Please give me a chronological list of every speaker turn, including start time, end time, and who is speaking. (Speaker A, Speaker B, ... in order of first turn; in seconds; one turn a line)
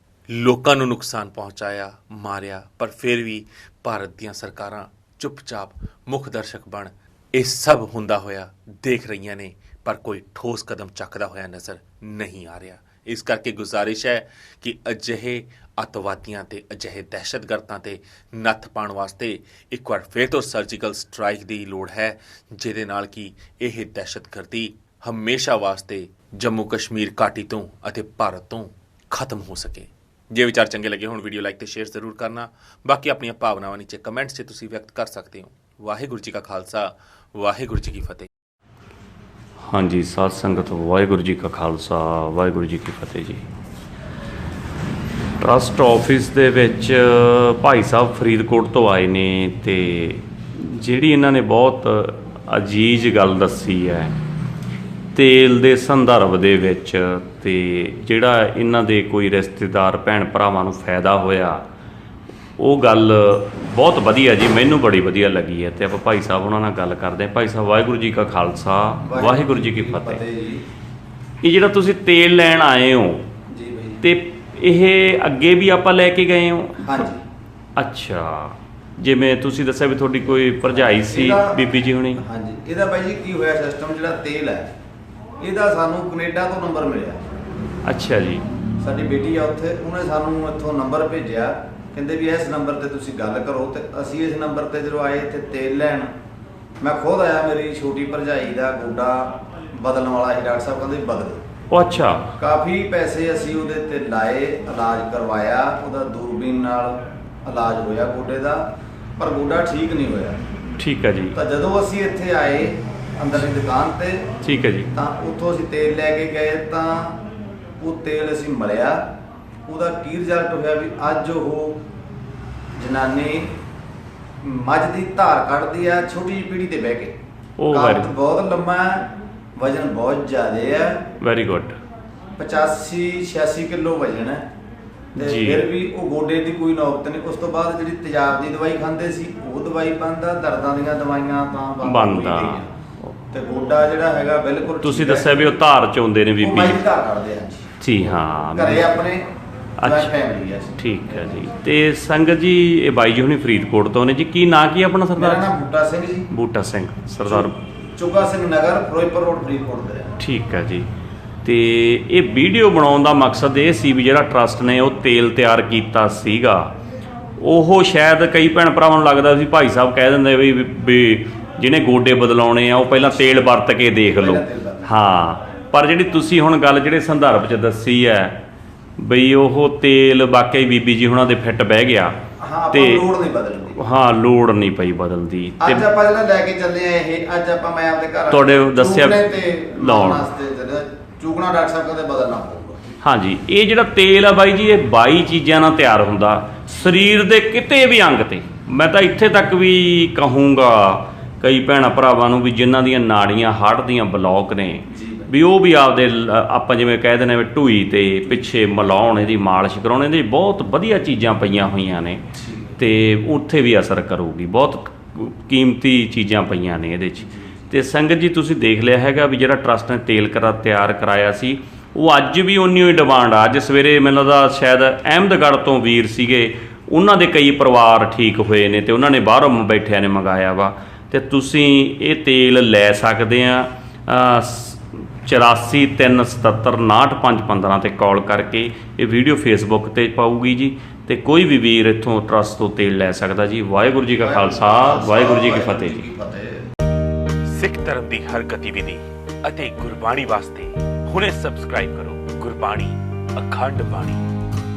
Speaker A: 0.3-38.3
Speaker B: 39.7-43.4
Speaker B: 45.4-54.1
Speaker B: 55.1-61.6
Speaker B: 62.6-70.2
Speaker C: 69.0-70.6
Speaker B: 71.4-73.2
Speaker C: 73.5-74.0
Speaker B: 74.0-77.1
Speaker C: 76.8-77.2
Speaker B: 77.8-82.2
Speaker C: 80.2-84.7
Speaker C: 85.4-87.2
Speaker B: 87.8-88.4
Speaker C: 88.8-96.1
Speaker C: 96.8-101.4
Speaker B: 101.7-102.3
Speaker C: 102.4-108.7
Speaker C: 109.2-110.4
Speaker B: 110.8-111.4
Speaker C: 111.3-114.3
Speaker B: 114.4-114.9
Speaker C: 114.9-117.2
Speaker C: 117.8-119.1
Speaker C: 119.7-121.8
Speaker C: 122.8-123.5
Speaker C: 124.4-127.2
Speaker B: 127.6-128.1
Speaker C: 127.7-131.0
Speaker B: 131.2-131.8
Speaker C: 132.4-134.5
Speaker B: 135.2-135.7
Speaker C: 135.2-142.7
Speaker B: 141.8-143.1
Speaker C: 143.3-145.6
Speaker B: 144.8-146.9
Speaker C: 146.4-149.3
Speaker B: 147.8-149.0
Speaker B: 149.8-150.2
Speaker C: 149.8-151.4
Speaker B: 150.8-155.5
Speaker C: 155.2-156.2
Speaker B: 156.3-157.6
Speaker C: 157.2-160.1
Speaker B: 160.2-160.9
Speaker B: 161.4-166.7
Speaker B: 167.4-178.4
Speaker C: 172.9-173.4
Speaker C: 174.0-174.9
Speaker B: 179.0-182.1
Speaker C: 182.4-183.8
Speaker B: 182.7-183.1
Speaker B: 183.7-185.9
Speaker C: 185.6-192.8
Speaker B: 188.3-190.3
Speaker B: 193.0-212.2
Speaker C: 204.9-205.3
Speaker C: 212.3-212.8
Speaker B: 212.8-246.0
Speaker C: 217.2-217.5
Speaker C: 244.1-246.6
Speaker A: 247.5-254.2